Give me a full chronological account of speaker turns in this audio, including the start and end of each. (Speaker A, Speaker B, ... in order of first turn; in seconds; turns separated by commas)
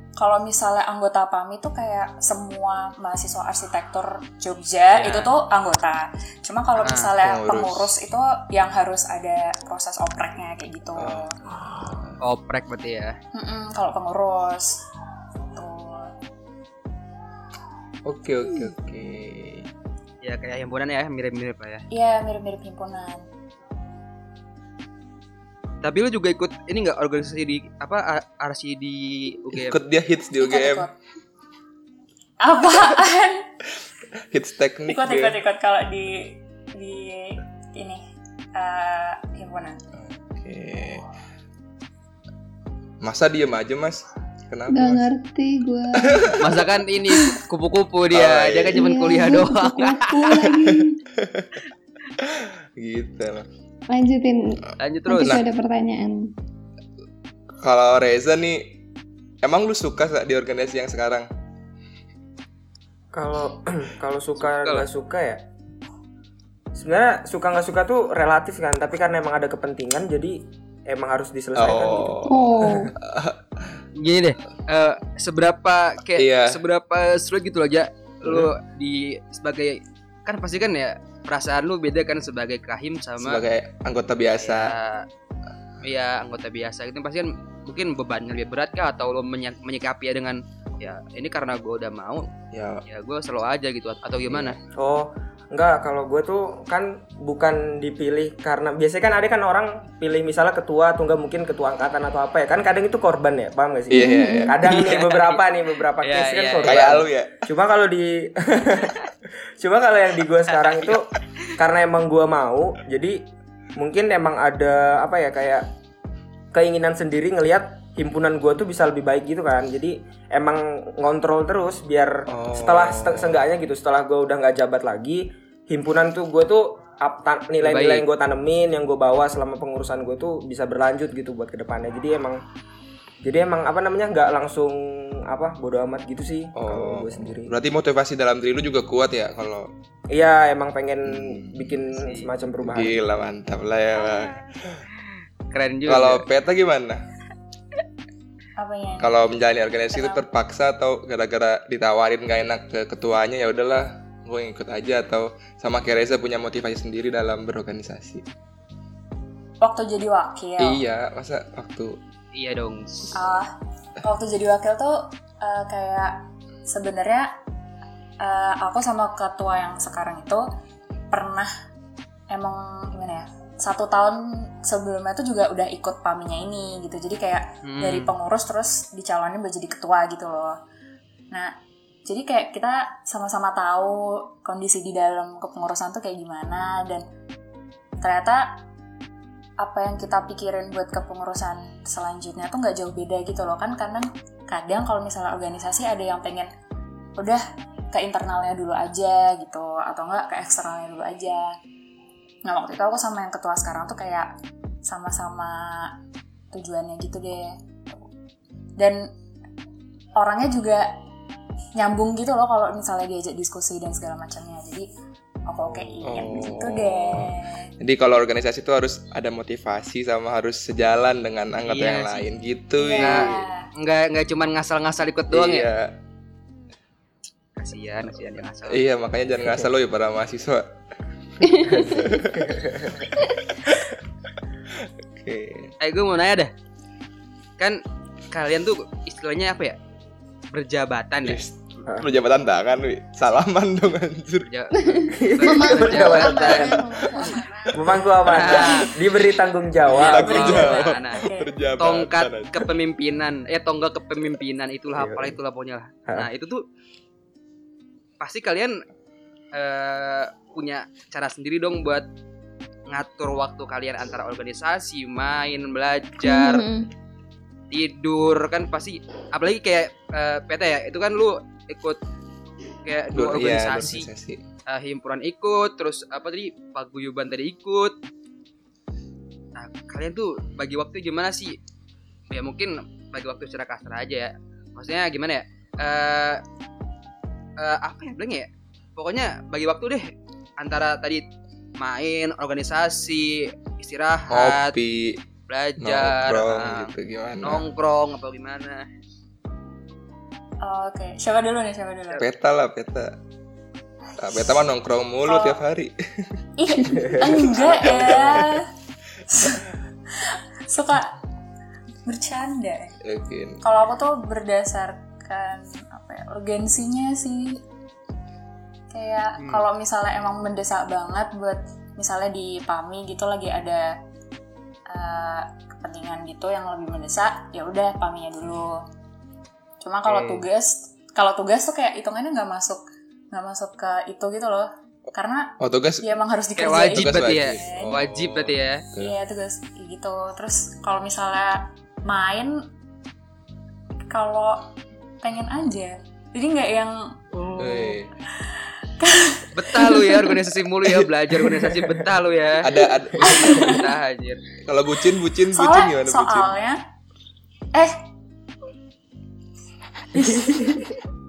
Speaker A: 0.2-11.3, Speaker B: 4.9-5.3, Speaker B: 6.8-7.1, Speaker C: 7.2-7.9, Speaker C: 11.0-12.2, Speaker B: 12.2-13.2, Speaker A: 13.3-14.8, Speaker A: 15.5-16.1, Speaker C: 18.0-19.7, Speaker B: 20.2-21.8, Speaker A: 21.9-23.2, Speaker B: 25.8-29.8, Speaker C: 29.5-30.9, Speaker A: 30.4-30.9, Speaker A: 32.4-33.5, Speaker C: 34.3-35.4, Speaker A: 34.9-38.0, Speaker A: 38.5-39.8, Speaker C: 40.0-41.0, Speaker C: 43.0-45.1, Speaker D: 44.7-46.4, Speaker C: 46.1-46.3, Speaker B: 46.4-50.5, Speaker D: 47.1-47.4, Speaker C: 48.1-48.9, Speaker D: 48.7-51.0, Speaker C: 50.4-51.5, Speaker C: 52.2-53.5, Speaker D: 53.9-56.3, Speaker B: 54.8-55.4, Speaker C: 55.2-55.5, Speaker C: 57.6-58.7, Speaker C: 59.4-61.3, Speaker E: 63.1-65.4, Speaker B: 64.5-64.8, Speaker E: 66.7-72.3, Speaker C: 71.5-73.8, Speaker D: 72.3-72.9, Speaker B: 74.0-83.4, Speaker C: 76.2-76.6, Speaker C: 78.2-78.5, Speaker C: 83.2-84.7, Speaker B: 84.4-85.0, Speaker B: 85.8-92.3, Speaker C: 92.5-92.8, Speaker B: 92.9-94.6, Speaker E: 94.7-109.0, Speaker C: 103.9-104.5, Speaker D: 103.9-104.5, Speaker B: 104.5-105.4, Speaker B: 106.0-107.0, Speaker C: 106.6-107.4, Speaker E: 109.6-115.7, Speaker B: 110.6-111.0, Speaker E: 116.5-132.4, Speaker C: 122.3-123.4, Speaker B: 127.6-128.0, Speaker E: 133.2-137.5, Speaker C: 136.6-139.7, Speaker E: 140.1-143.0, Speaker C: 141.1-141.8, Speaker B: 141.9-142.3, Speaker C: 142.6-144.8, Speaker B: 144.0-144.3, Speaker B: 145.5-146.2, Speaker C: 145.9-147.0, Speaker A: 148.6-149.2, Speaker C: 149.0-158.2, Speaker A: 149.9-150.2, Speaker A: 159.6-160.8, Speaker C: 160.6-162.0, Speaker B: 162.3-163.2, Speaker A: 163.1-167.3, Speaker A: 168.2-170.4, Speaker A: 171.1-171.5, Speaker A: 172.3-180.6, Speaker B: 177.6-178.1, Speaker A: 181.3-187.1, Speaker A: 188.0-188.6, Speaker A: 189.6-196.5, Speaker A: 197.2-201.6, Speaker A: 202.4-204.3, Speaker A: 204.8-205.9, Speaker A: 206.5-207.6, Speaker A: 208.8-209.1, Speaker A: 210.2-210.9, Speaker A: 211.8-214.9, Speaker A: 215.5-217.7, Speaker E: 215.7-216.2, Speaker C: 216.0-223.4, Speaker B: 221.6-222.3, Speaker A: 222.8-223.7, Speaker B: 223.0-225.7, Speaker C: 225.3-225.9, Speaker B: 227.6-228.8, Speaker C: 228.7-230.7, Speaker C: 231.4-234.0, Speaker D: 231.5-231.8, Speaker E: 232.4-232.9, Speaker C: 234.8-235.7, Speaker B: 235.8-236.5, Speaker B: 238.3-239.8, Speaker B: 240.5-241.4, Speaker C: 241.2-244.5, Speaker B: 244.4-246.8, Speaker D: 244.8-247.5, Speaker E: 245.1-246.9, Speaker A: 247.0-247.7, Speaker E: 247.7-250.6, Speaker B: 248.2-248.9, Speaker C: 249.8-252.7, Speaker B: 249.9-251.2, Speaker A: 250.3-251.5, Speaker B: 251.8-256.6, Speaker E: 254.9-255.4, Speaker B: 258.2-258.7, Speaker B: 259.5-262.0, Speaker B: 262.9-266.7, Speaker D: 266.2-266.9, Speaker B: 267.7-272.0, Speaker B: 272.8-274.1, Speaker C: 273.1-274.4, Speaker B: 274.7-277.9, Speaker B: 279.5-281.6, Speaker B: 282.3-286.4, Speaker B: 287.6-291.2, Speaker B: 291.8-294.8, Speaker C: 294.3-295.2, Speaker B: 295.5-298.9, Speaker C: 295.8-297.6, Speaker A: 300.6-302.2, Speaker C: 302.2-303.1, Speaker C: 304.2-306.4, Speaker A: 305.2-305.6, Speaker A: 306.6-308.7, Speaker E: 307.0-308.4, Speaker C: 307.4-308.6, Speaker A: 309.3-309.6, Speaker A: 310.2-311.2, Speaker A: 312.1-313.0, Speaker C: 313.0-313.6, Speaker A: 313.6-317.6, Speaker A: 318.9-323.9, Speaker B: 319.4-319.6, Speaker A: 324.9-328.8, Speaker A: 329.8-338.0, Speaker B: 330.1-330.4, Speaker C: 335.6-336.1, Speaker B: 336.6-338.8, Speaker C: 336.7-339.1, Speaker A: 339.0-342.6, Speaker A: 344.1-344.6, Speaker A: 345.2-347.1, Speaker B: 347.3-348.0, Speaker C: 347.6-348.1, Speaker A: 349.0-350.3, Speaker B: 349.5-354.4, Speaker C: 352.6-353.8, Speaker A: 353.2-353.9, Speaker C: 354.6-356.5, Speaker A: 355.5-356.8, Speaker E: 360.1-360.9, Speaker A: 360.2-360.6